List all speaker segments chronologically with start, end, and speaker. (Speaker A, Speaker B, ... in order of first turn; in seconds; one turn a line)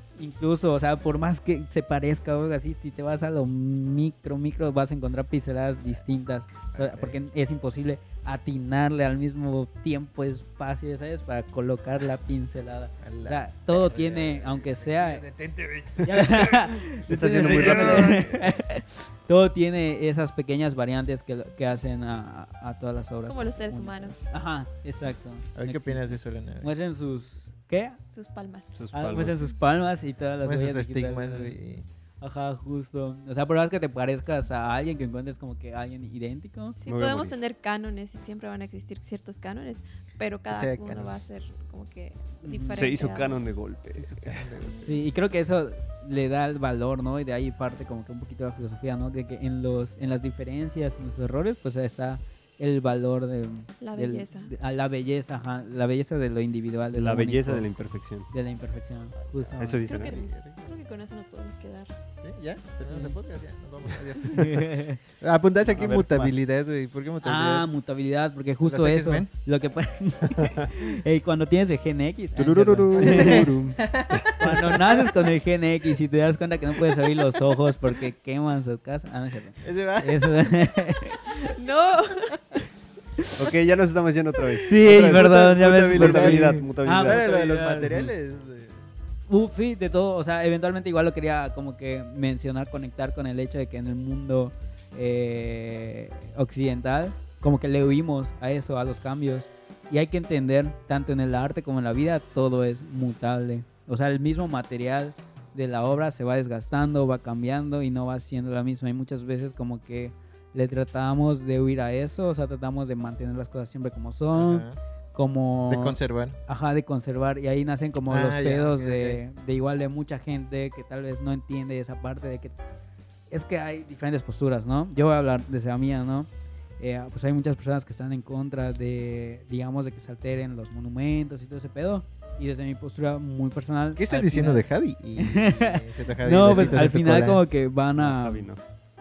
Speaker A: 0.2-15.2
Speaker B: 6.7-7.2
Speaker B: 13.0-18.5
Speaker A: 16.0-28.0
Speaker C: 17.1-18.2
Speaker D: 23.3-24.3
Speaker B: 25.6-26.7
Speaker D: 28.1-28.7
Speaker C: 28.7-29.5
Speaker A: 28.9-31.5
Speaker B: 30.4-31.8
Speaker A: 32.2-36.8
Speaker D: 36.8-43.4
Speaker C: 36.9-37.3
Speaker B: 40.5-41.1
Speaker A: 42.4-42.9
Speaker C: 42.7-44.5
Speaker B: 43.9-45.0
Speaker A: 44.8-57.7
Speaker D: 53.8-54.5
Speaker C: 56.9-58.3
Speaker A: 58.3-59.8
Speaker B: 59.2-60.8
Speaker C: 59.6-60.1
Speaker D: 59.9-61.9
Speaker B: 62.2-67.7
Speaker A: 62.9-63.1
Speaker A: 64.3-65.0
Speaker C: 65.6-66.5
Speaker A: 67.2-73.8
Speaker B: 68.6-69.3
Speaker C: 70.3-70.6
Speaker C: 72.3-73.5
Speaker B: 72.9-75.2
Speaker A: 74.4-81.5
Speaker B: 79.6-80.3
Speaker D: 81.4-82.4
Speaker C: 83.3-87.2
Speaker A: 84.7-88.1
Speaker B: 85.9-88.8
Speaker A: 89.3-122.5
Speaker B: 114.3-114.8
Speaker B: 115.7-116.4
Speaker B: 118.1-119.2
Speaker A: 123.3-134.6
Speaker B: 134.0-137.4
Speaker A: 135.2-138.5
Speaker C: 137.9-138.6